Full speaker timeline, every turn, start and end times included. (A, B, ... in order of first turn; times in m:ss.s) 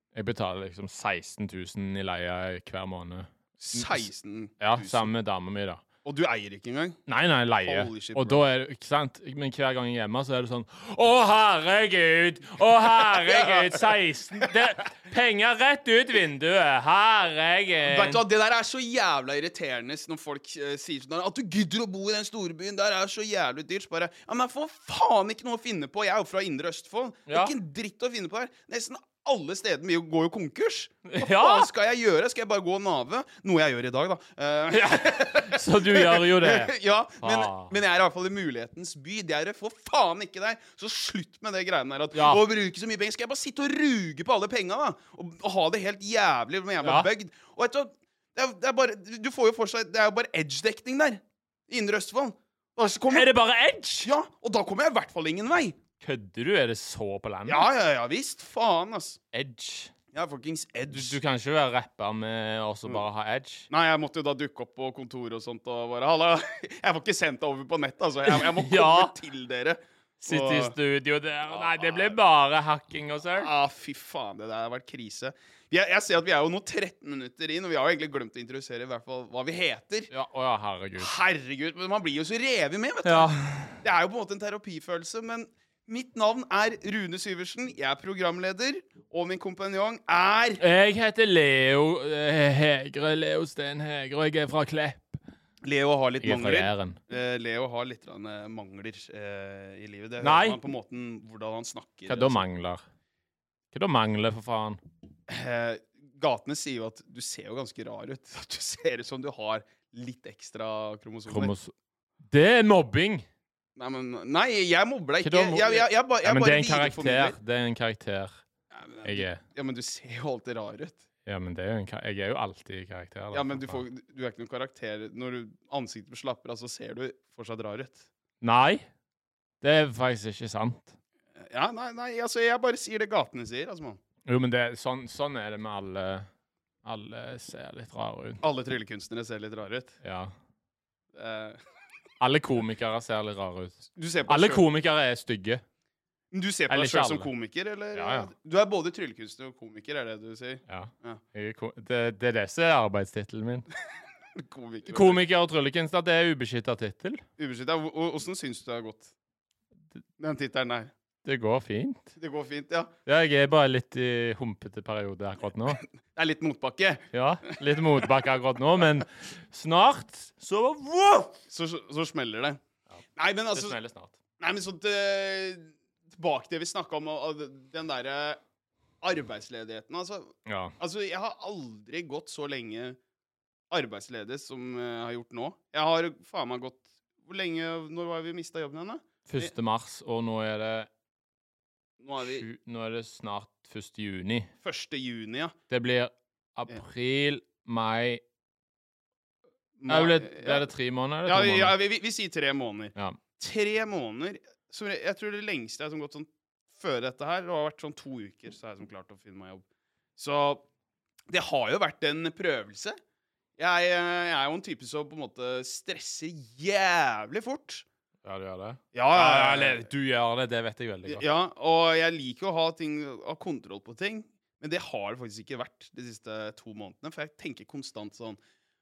0:00.1-0:04.1 A
0:03.6-0:05.1 B
0:04.6-0:05.8 A
0:06.0-0:07.0 B
0:07.1-0:18.2 A
0:07.6-0:08.4 B
0:12.9-0:14.6 B
0:17.8-0:53.3 B
0:27.3-0:27.5 A
0:31.1-0:31.7 A
0:34.7-0:37.7 A
0:42.1-0:42.4 A
0:46.8-0:47.1 A
0:53.1-0:54.1 A
0:54.0-0:55.8 B
0:56.0-0:57.6 A
0:57.5-0:59.2 B
0:59.3-0:59.9 A
1:00.1-1:01.2 B
1:00.9-1:03.7 A
1:03.7-1:10.7 B
1:08.3-1:09.1 A
1:10.2-1:13.5 A
1:11.5-1:12.2 B
1:13.3-1:20.1 B
1:20.1-1:21.1 A
1:21.0-1:23.3 B
1:23.0-1:23.8 A
1:23.8-1:30.6 B
1:30.6-1:35.2 A
1:35.6-1:42.4 B
1:36.2-1:37.0 A
1:40.2-1:40.6 A
1:42.0-1:42.8 A
1:43.7-1:44.8 A
1:45.3-1:51.5 B
1:51.3-1:51.7 A
1:52.3-1:53.2 A
1:53.8-1:57.4 B
1:55.2-1:58.4 A
1:58.7-2:01.0 B
1:59.0-1:59.4 A
2:01.2-2:03.8 A
2:03.3-2:08.0 B
2:08.4-2:08.9 A
2:09.6-2:11.0 A
2:11.4-2:14.0 B
2:14.2-2:16.3 A
2:16.8-2:18.4 A
2:18.4-2:20.0 B
2:20.0-2:20.3 A
2:21.1-2:21.6 B
2:22.2-2:25.6 A
2:23.9-2:24.6 B
2:26.3-2:31.2 B
2:26.7-2:27.3 A
2:27.9-2:28.3 A
2:30.7-2:33.7 A
2:34.4-2:35.2 B
2:34.9-2:37.2 A
2:37.4-2:39.1 B
2:40.2-2:40.9 B
2:41.2-2:42.1 A
2:42.2-2:42.9 B
2:43.0-2:45.8 A
2:46.1-2:48.0 B
2:47.1-2:51.4 A
2:51.5-2:52.6 B
2:53.2-2:53.8 B
2:53.5-2:54.2 A
2:54.4-2:58.4 B
2:59.0-3:03.0 B
3:00.4-3:00.7 A
3:03.7-3:09.5 B
3:09.3-3:10.9 A
3:12.0-3:12.4 B
3:12.2-3:14.5 A
3:14.6-3:15.5 B
3:15.7-3:18.2 A
3:19.8-3:20.6 B
3:19.9-3:21.8 A
3:21.2-3:29.6 B
3:30.2-3:30.6 B
3:31.3-3:33.0 B
3:33.6-3:37.8 B
3:38.2-3:41.2 A
3:38.9-3:39.9 B
3:41.0-3:48.4 B